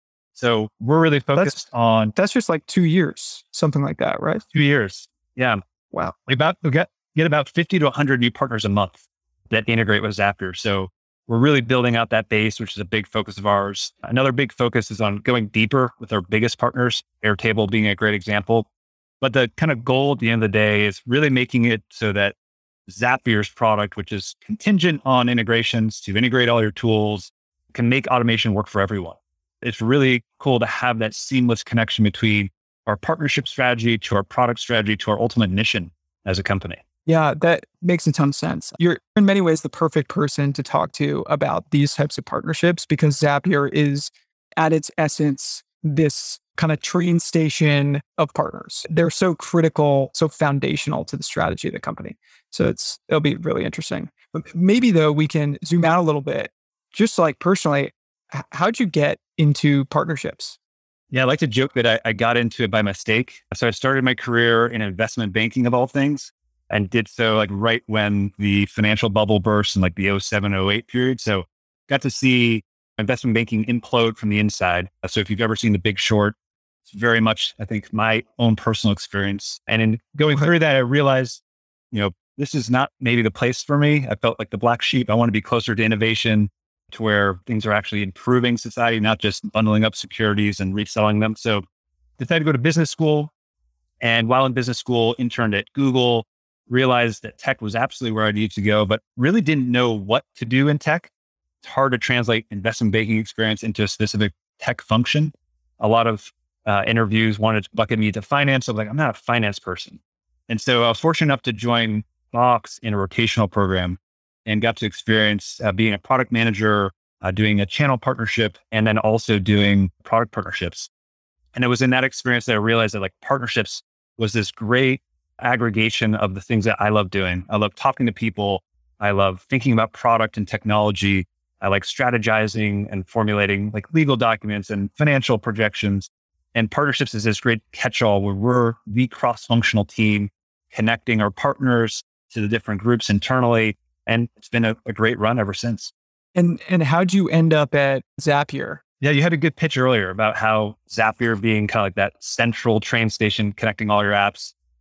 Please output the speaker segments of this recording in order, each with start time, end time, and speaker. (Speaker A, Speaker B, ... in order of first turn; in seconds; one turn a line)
Speaker A: 0.3-2.1
Speaker B: 2.1-4.5
Speaker A: 4.5-5.6
Speaker A: 6.3-18.7
Speaker A: 19.2-22.4
Speaker A: 22.9-36.8
Speaker B: 37.1-60.6
Speaker A: 61.1-76.3
Speaker A: 76.9-81.4
Speaker A: 81.9-91.7
Speaker A: 92.2-93.3
Speaker A: 94.0-101.1
Speaker A: 101.6-120.9
Speaker A: 121.5-145.9
Speaker B: 146.3-148.8
Speaker A: 149.0-154.5